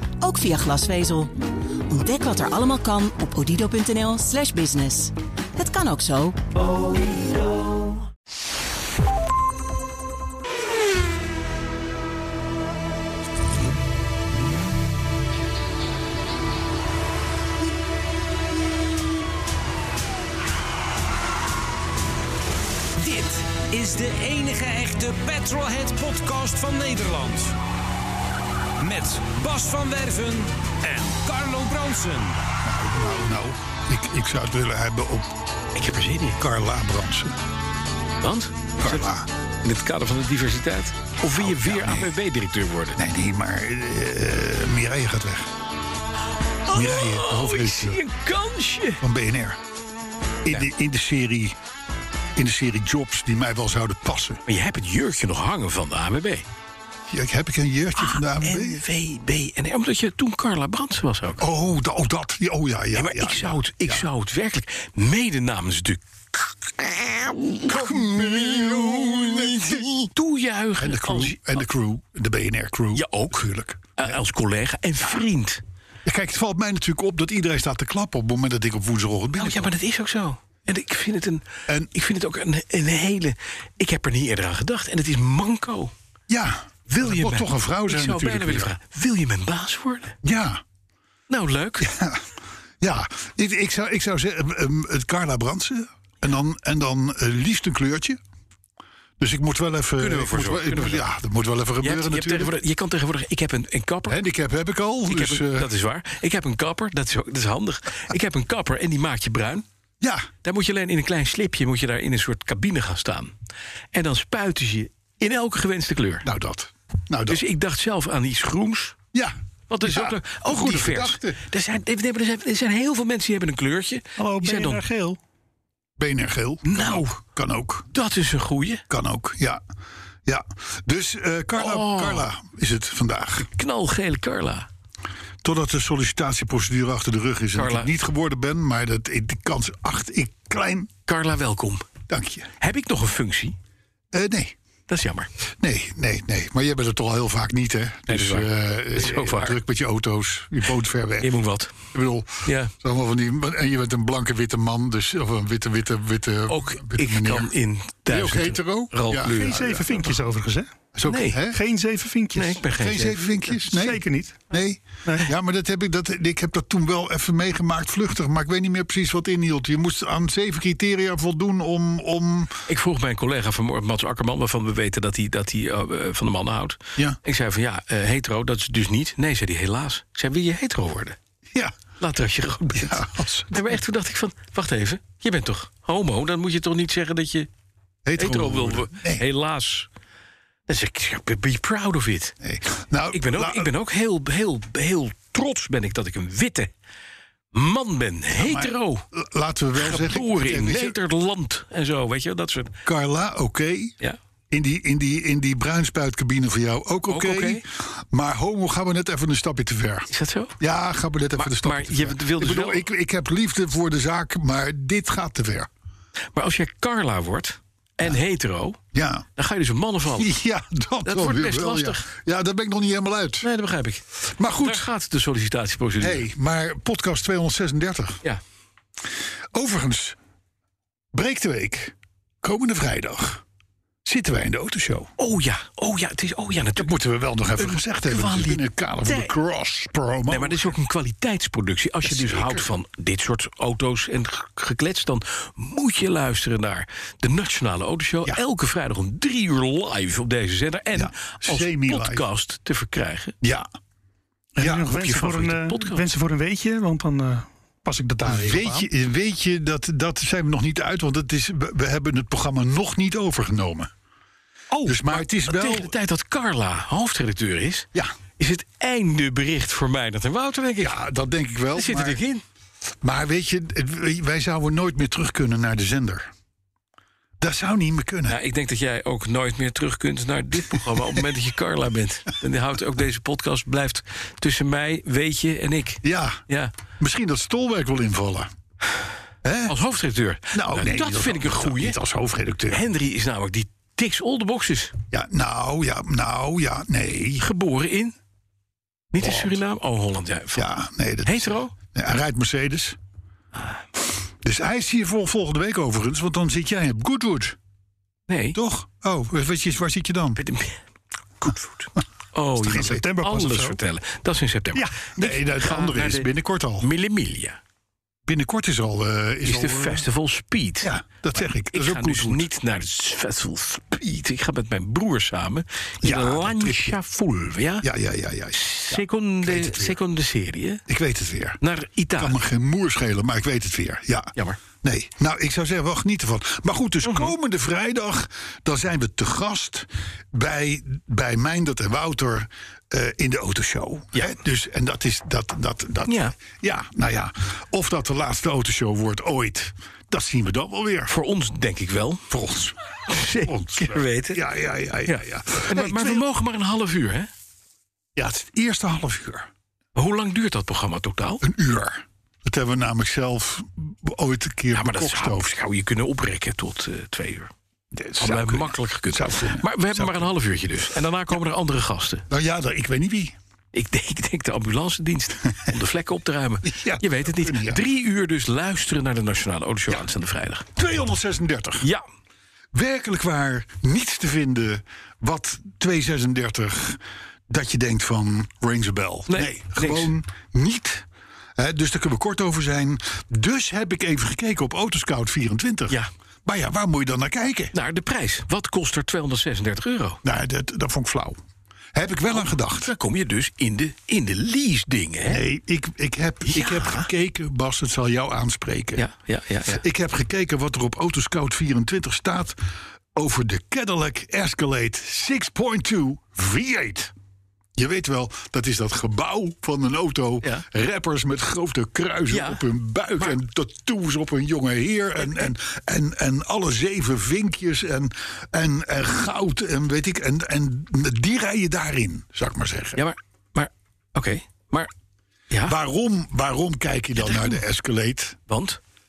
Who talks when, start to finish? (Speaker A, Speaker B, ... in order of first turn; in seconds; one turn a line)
Speaker A: 0.2-1.3
Speaker A: 1.9-6.6
Speaker B: 23.0-27.5
Speaker B: 28.8-32.4
Speaker C: 32.6-35.3
Speaker D: 35.7-36.4
Speaker C: 36.4-37.4
Speaker D: 38.2-39.1
Speaker C: 38.8-39.3
Speaker D: 39.6-43.0
Speaker C: 41.4-42.1
Speaker C: 43.0-45.5
Speaker D: 46.6-49.0
Speaker C: 46.7-48.0
Speaker C: 49.0-49.6
Speaker C: 50.4-51.5
Speaker C: 52.4-54.4
Speaker D: 54.5-56.4
Speaker C: 57.1-58.8
Speaker D: 58.0-61.4
Speaker C: 61.4-64.1
Speaker D: 62.9-67.8
Speaker C: 67.6-70.1
Speaker D: 68.6-71.6
Speaker C: 70.8-74.2
Speaker D: 72.9-73.4
Speaker D: 74.0-75.6
Speaker C: 76.0-79.7
Speaker D: 79.4-85.9
Speaker C: 86.3-88.7
Speaker D: 86.9-90.2
Speaker C: 90.2-90.6
Speaker D: 91.3-91.9
Speaker C: 91.8-92.2
Speaker C: 92.8-98.2
Speaker C: 99.2-102.5
Speaker D: 100.0-101.0
Speaker D: 101.8-104.2
Speaker C: 104.1-105.7
Speaker D: 105.1-109.6
Speaker C: 110.0-110.3
Speaker D: 110.4-113.3
Speaker D: 113.9-116.2
Speaker C: 116.2-117.4
Speaker D: 117.3-119.0
Speaker D: 119.7-124.8
Speaker C: 119.8-121.5
Speaker E: 124.2-125.2
Speaker C: 126.0-127.9
Speaker D: 126.6-127.1
Speaker D: 127.9-128.8
Speaker C: 128.9-129.6
Speaker C: 130.2-133.5
Speaker D: 131.5-132.3
Speaker D: 133.5-134.7
Speaker C: 135.4-140.9
Speaker D: 137.5-137.9
Speaker D: 141.1-141.9
Speaker C: 142.1-142.5
Speaker D: 142.6-143.6
Speaker C: 144.1-144.5
Speaker D: 144.9-145.3
Speaker C: 145.6-151.3
Speaker D: 148.1-149.6
Speaker D: 151.2-151.8
Speaker C: 151.9-157.5
Speaker D: 152.4-152.7
Speaker D: 156.5-160.0
Speaker C: 158.1-159.9
Speaker E: 159.2-160.7
Speaker C: 160.9-161.6
Speaker D: 161.0-161.4
Speaker E: 161.5-162.6
Speaker D: 162.3-163.5
Speaker C: 162.6-172.6
Speaker E: 163.6-164.4
Speaker D: 172.7-181.2
Speaker D: 182.0-187.5
Speaker C: 182.7-183.7
Speaker C: 188.1-189.2
Speaker D: 188.2-189.9
Speaker D: 190.7-192.3
Speaker C: 192.4-193.7
Speaker D: 193.1-196.7
Speaker D: 197.5-199.0
Speaker C: 198.3-200.9
Speaker D: 199.8-202.7
Speaker C: 202.8-203.9
Speaker C: 204.5-215.7
Speaker D: 207.1-207.6
Speaker D: 210.1-210.5
Speaker D: 211.3-212.8
Speaker D: 216.3-218.8
Speaker C: 218.9-219.3
Speaker D: 219.3-220.3
Speaker C: 220.1-223.5
Speaker D: 221.0-222.0
Speaker D: 223.4-226.2
Speaker C: 224.3-224.9
Speaker C: 226.0-228.2
Speaker C: 229.5-230.2
Speaker C: 231.1-233.4
Speaker C: 234.0-235.1
Speaker D: 235.2-236.9
Speaker C: 236.8-240.7
Speaker D: 237.6-239.3
Speaker D: 240.3-253.3
Speaker C: 242.0-242.7
Speaker C: 250.9-252.3
Speaker C: 253.4-253.7
Speaker E: 254.6-258.9
Speaker C: 254.6-254.9
Speaker D: 254.8-256.1
Speaker C: 258.2-263.9
Speaker D: 264.7-267.9
Speaker C: 264.8-265.9
Speaker D: 268.4-271.0
Speaker C: 270.8-272.2
Speaker D: 271.7-272.4
Speaker C: 273.0-276.3
Speaker C: 277.4-278.4
Speaker D: 278.3-286.7
Speaker C: 286.0-286.4
Speaker C: 287.0-288.5
Speaker C: 289.4-289.7
Speaker D: 289.7-292.0
Speaker C: 290.5-292.8
Speaker D: 292.7-294.9
Speaker C: 295.1-297.4
Speaker D: 297.4-298.1
Speaker D: 299.1-300.7
Speaker C: 299.2-299.6
Speaker C: 300.5-303.0
Speaker D: 301.2-301.7
Speaker C: 304.4-307.6
Speaker D: 308.3-308.6
Speaker C: 308.5-310.4
Speaker D: 310.4-310.8
Speaker D: 311.4-317.6
Speaker C: 312.6-313.0
Speaker E: 312.7-313.8
Speaker C: 314.7-316.9
Speaker C: 318.3-320.1
Speaker D: 319.4-320.9
Speaker C: 320.8-322.5
Speaker D: 321.7-327.9
Speaker C: 326.0-327.0
Speaker C: 327.8-330.0
Speaker D: 328.5-330.8
Speaker C: 330.9-331.6
Speaker D: 331.6-332.4
Speaker C: 332.2-351.1
Speaker D: 337.1-337.3
Speaker D: 346.1-346.4
Speaker D: 351.1-352.3
Speaker C: 352.3-356.2
Speaker D: 353.1-354.4
Speaker D: 355.1-357.3
Speaker C: 358.1-359.5
Speaker D: 359.9-361.4
Speaker C: 361.4-365.5
Speaker D: 364.7-367.5
Speaker C: 367.9-370.3
Speaker D: 368.2-372.3
Speaker C: 372.3-373.4
Speaker D: 373.7-380.7
Speaker C: 376.6-377.8
Speaker C: 380.7-381.9
Speaker C: 382.7-391.1
Speaker D: 389.3-390.1
Speaker C: 391.6-397.7
Speaker D: 397.7-400.2
Speaker C: 400.2-401.4
Speaker C: 401.9-402.9
Speaker D: 402.3-405.4
Speaker C: 405.2-409.1
Speaker D: 406.5-407.1
Speaker D: 408.9-409.8
Speaker C: 409.7-412.6
Speaker C: 413.1-417.1
Speaker C: 417.8-433.0
Speaker D: 422.3-422.6
Speaker D: 425.2-425.5
Speaker D: 432.9-434.9
Speaker D: 435.5-435.8
Speaker C: 435.6-438.4
Speaker D: 437.2-437.6
Speaker D: 438.5-438.8